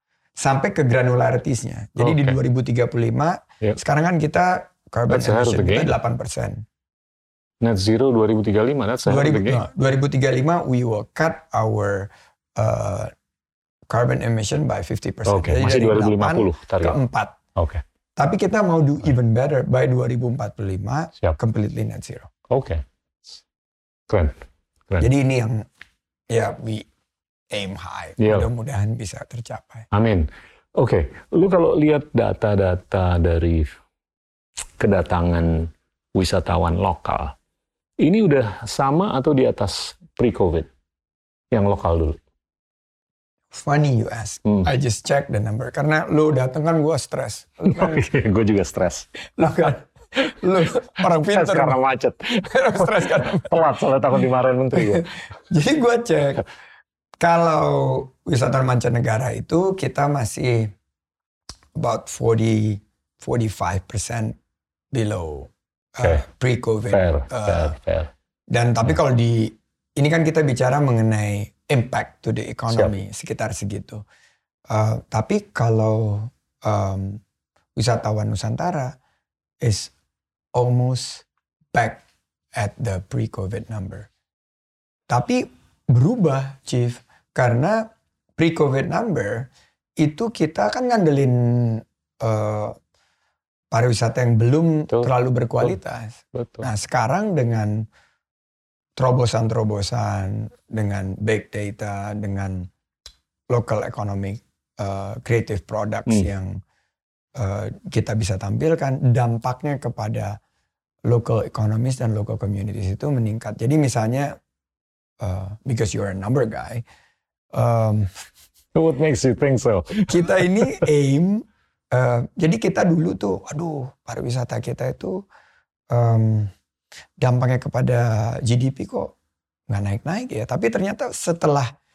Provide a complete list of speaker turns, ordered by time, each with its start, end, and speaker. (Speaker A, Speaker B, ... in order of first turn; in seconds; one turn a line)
Speaker A: 0.4-6.7
Speaker B: 2.0-2.4
Speaker B: 5.1-6.0
Speaker B: 7.6-9.6
Speaker A: 9.1-13.1
Speaker A: 13.9-17.4
Speaker B: 15.3-17.0
Speaker B: 17.6-17.8
Speaker A: 18.2-22.3
Speaker B: 22.5-22.8
Speaker B: 24.1-24.4
Speaker A: 25.0-25.6
Speaker A: 26.3-26.9
Speaker A: 27.5-29.9
Speaker B: 28.2-28.5
Speaker B: 29.9-33.7
Speaker B: 34.8-37.4
Speaker B: 38.0-40.7
Speaker B: 41.5-42.2
Speaker A: 43.5-48.1
Speaker B: 47.6-49.1
Speaker A: 49.2-51.8
Speaker B: 51.1-55.2
Speaker A: 52.4-53.6
Speaker A: 54.7-56.5
Speaker A: 57.2-60.7
Speaker A: 61.8-64.4
Speaker A: 64.9-67.8
Speaker B: 66.9-68.1
Speaker A: 68.5-74.0
Speaker A: 74.7-77.2
Speaker A: 77.8-79.0
Speaker A: 79.6-79.9
Speaker A: 80.5-82.0
Speaker A: 82.6-84.1
Speaker A: 85.1-87.9
Speaker A: 88.4-89.5
Speaker A: 90.0-92.8
Speaker A: 93.7-97.8
Speaker B: 94.9-95.8
Speaker B: 96.3-96.7
Speaker A: 99.0-102.7
Speaker A: 103.5-106.6
Speaker A: 107.4-110.4
Speaker A: 111.1-114.4
Speaker A: 115.2-116.8
Speaker A: 117.5-118.1
Speaker B: 118.8-120.9
Speaker A: 120.1-125.2
Speaker A: 125.9-126.5
Speaker A: 127.2-129.1
Speaker A: 129.7-131.7